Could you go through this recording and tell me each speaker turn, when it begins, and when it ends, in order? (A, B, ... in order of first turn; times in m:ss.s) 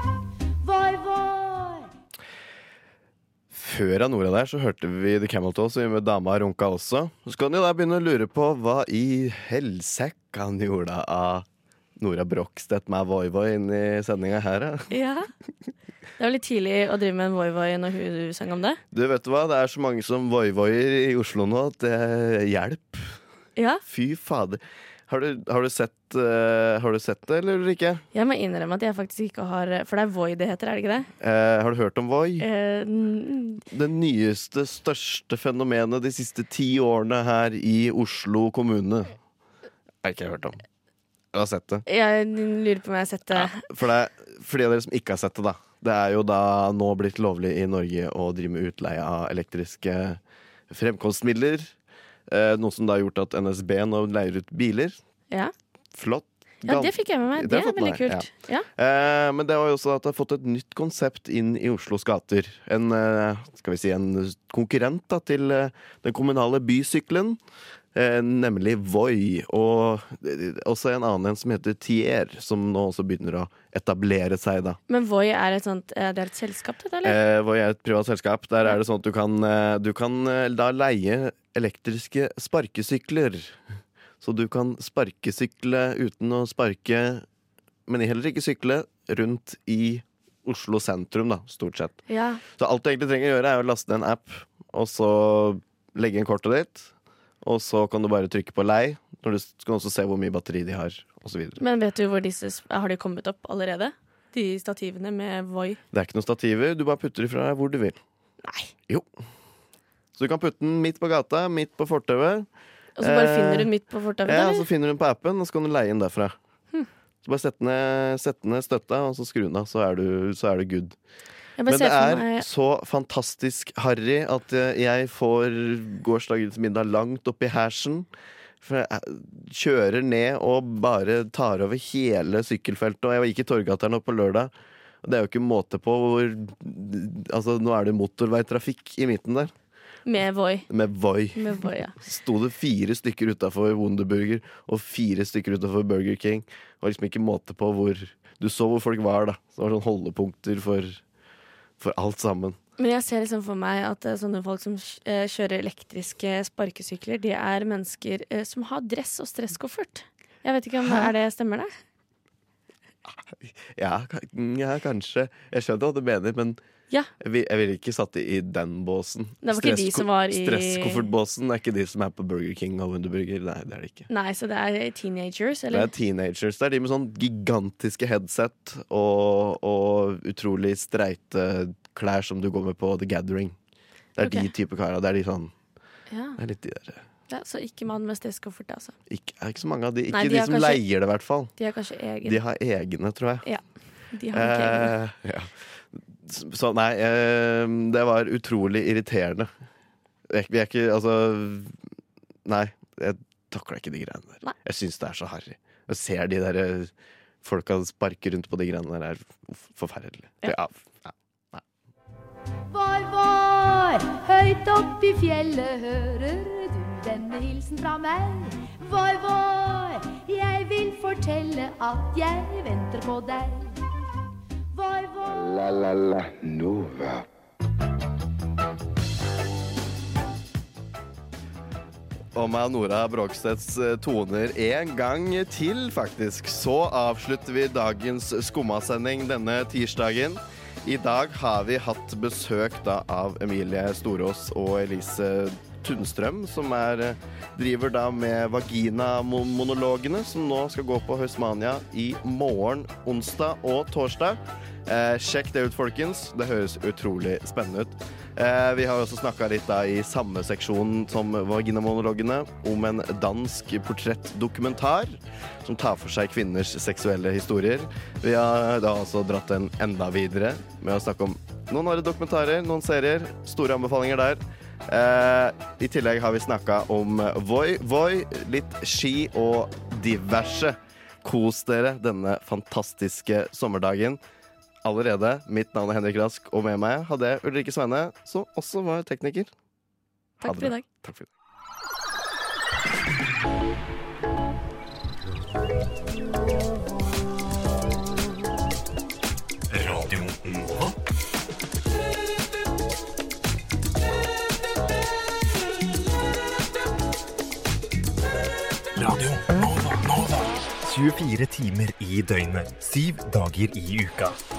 0:00.6-0:01.9 A
0:03.5-0:11.4 B
0:12.0-0:14.9 B
0:14.9-0:15.3 C
0:16.2-0:18.8 C
0:18.9-0:23.2 B
0:23.6-0:23.8 C
0:23.8-0:28.0 B
0:28.1-0:31.1 C
0:31.2-0:32.4 B
0:32.4-0:33.6 C
0:33.7-0:39.2 B
0:40.0-0:40.6 B
0:41.3-0:41.8 B
0:41.8-0:43.6 C
0:43.3-0:51.7 B
0:52.3-0:55.0 B
0:55.9-1:07.4 B
0:56.6-0:58.7 C
1:07.9-1:14.8 B
1:14.9-1:17.2 C
1:17.0-1:23.6 B
1:24.2-1:27.2 B
1:27.9-1:32.0 B
1:32.1-1:32.4 C
1:32.5-1:41.6 B
1:41.6-1:45.8 C
1:45.9-1:48.0 B
1:48.4-1:48.7 C
1:50.1-1:52.5 B
1:53.0-1:54.7 C
1:53.0-1:53.7 B
1:54.2-1:56.4 B
1:57.2-2:01.0 B
2:01.6-2:02.4 C
2:01.7-2:08.1 B
2:08.6-2:19.5 B
2:20.0-2:20.7 C
2:20.7-2:31.0 B
2:21.4-2:21.9 C
2:31.8-2:32.6 B
2:32.8-2:41.7 C
2:40.8-2:41.1 B
2:43.0-2:46.6 B
2:47.2-2:54.1 B
2:49.4-2:51.1 C
2:54.1-2:55.9 C
2:55.7-3:03.6 B
3:04.1-3:05.5 B
3:04.2-3:04.5 C
3:06.1-3:06.4 C
3:06.4-3:07.0 B
3:07.3-3:09.0 C
3:09.1-3:11.5 B
3:10.1-3:10.8 C
3:11.6-3:12.4 C
3:12.2-3:13.4 B
3:13.4-3:15.0 C
3:14.3-3:19.5 B
3:20.3-3:21.8 B
3:22.4-3:26.9 B
3:27.4-3:31.6 B
3:32.7-3:43.7 A
3:44.7-3:45.3 A
3:45.2-3:47.2 D
3:52.3-4:44.2 B
4:44.8-4:49.5 B
4:50.4-4:50.8 C
4:50.4-4:51.3 B
4:59.7-5:01.0 E
5:08.9-5:14.4 E